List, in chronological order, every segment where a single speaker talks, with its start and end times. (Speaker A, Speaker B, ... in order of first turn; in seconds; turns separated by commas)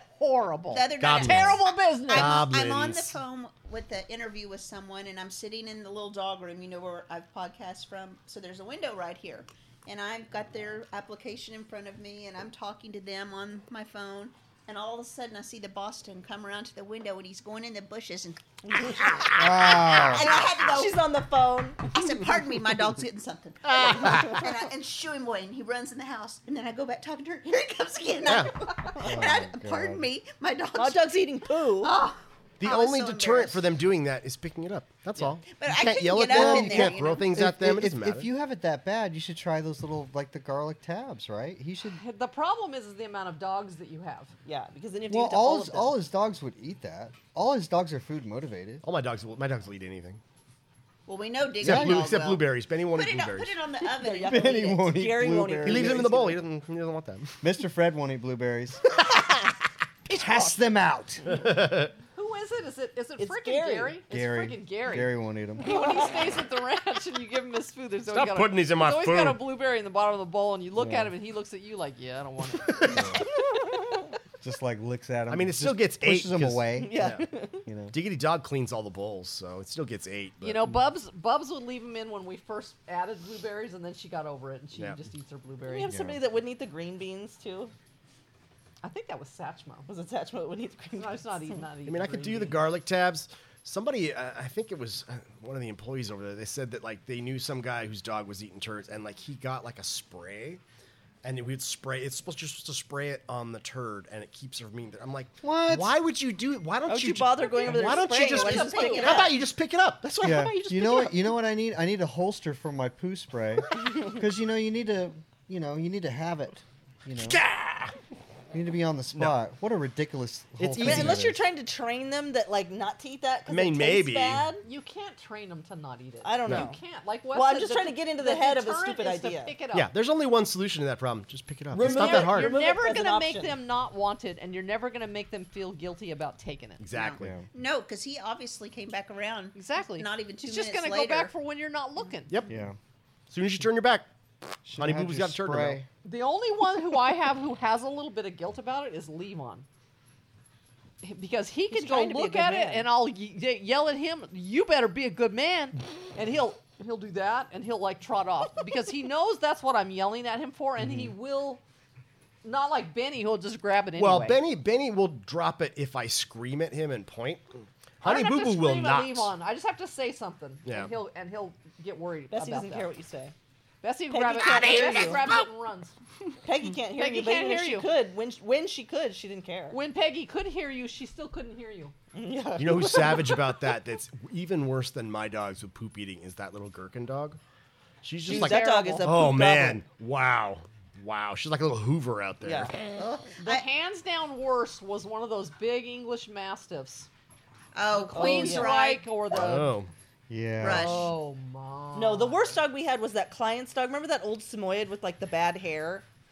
Speaker A: 0.2-2.5, Speaker B: 0.7-21.0, Speaker C: 1.0-3.2, Speaker D: 18.7-21.9, Speaker E: 19.4-20.3, Speaker B: 21.9-31.3, Speaker C: 23.7-24.4, Speaker D: 24.1-24.4, Speaker C: 28.2-28.6, Speaker E: 29.0-30.1, Speaker D: 30.8-32.0, Speaker B: 31.8-33.7, Speaker C: 32.6-38.3, Speaker B: 35.5-37.3, Speaker E: 36.2-42.0, Speaker A: 41.9-44.3, Speaker D: 44.5-46.0, Speaker E: 45.1-48.8, Speaker C: 48.8-50.2, Speaker B: 51.1-54.7, Speaker C: 51.6-53.6, Speaker E: 51.6-52.1, Speaker D: 53.9-56.4, Speaker E: 54.2-56.1, Speaker C: 55.6-57.4, Speaker E: 57.4-58.8, Speaker E: 60.1-61.2, Speaker D: 60.1-60.5, Speaker C: 61.2-61.9, Speaker A: 62.1-73.0, Speaker D: 63.2-64.0, Speaker E: 64.1-65.7, Speaker C: 68.1-69.4, Speaker E: 70.8-71.1, Speaker C: 72.6-73.2, Speaker E: 72.9-73.2, Speaker E: 74.4-78.0, Speaker C: 75.3-77.3, Speaker D: 76.8-77.7, Speaker C: 77.9-80.7, Speaker A: 80.4-85.9, Speaker C: 84.8-85.0, Speaker D: 85.7-87.7, Speaker C: 85.9-86.2, Speaker A: 88.8-89.9, Speaker D: 89.9-91.6, Speaker A: 91.0-92.7, Speaker C: 91.9-100.6, Speaker C: 101.2-110.7, Speaker E: 105.4-106.0, Speaker D: 106.9-109.3, Speaker B: 107.7-109.4, Speaker A: 108.6-109.2, Speaker D: 110.1-111.3, Speaker E: 110.2-117.4, Speaker C: 117.2-117.9, Speaker E: 118.5-121.4, Speaker C: 120.6-121.3, Speaker D: 120.8-124.7, Speaker C: 123.5-124.5, Speaker A: 124.6-129.9, Speaker D: 126.2-126.8, Speaker C: 126.5-126.7, Speaker D: 127.3-129.6, Speaker C: 129.7-132.6, Speaker D: 131.7-133.6, Speaker A: 131.8-136.8, Speaker C: 136.8-137.4, Speaker B: 136.9-141.3, Speaker A: 139.6-142.4, Speaker C: 142.3-142.6, Speaker E: 142.5-142.8, Speaker C: 143.3-144.1, Speaker E: 144.7-145.9, Speaker C: 144.8-145.8, Speaker A: 146.0-149.7, Speaker A: 151.0-161.6, Speaker D: 151.7-152.9, Speaker A: 162.4-164.4, Speaker C: 164.0-169.3, Speaker A: 168.0-172.9, Speaker C: 170.7-170.9, Speaker D: 172.3-173.3, Speaker A: 173.8-175.9, Speaker D: 174.1-175.3, Speaker B: 174.4-175.4, Speaker D: 176.4-179.8, Speaker A: 176.9-177.9, Speaker A: 179.7-181.9, Speaker D: 182.1-183.7, Speaker C: 182.6-187.4, Speaker C: 188.0-192.8, Speaker A: 188.3-189.2, Speaker D: 188.3-189.8, Speaker D: 192.4-192.7, Speaker B: 192.9-193.7, Speaker A: 193.4-197.1, Speaker B: 197.8-199.2, Speaker A: 197.9-199.8, Speaker D: 198.1-198.7, Speaker C: 199.3-199.9, Speaker E: 200.3-201.1, Speaker B: 200.6-201.1, Speaker A: 200.6-202.6, Speaker D: 201.9-206.1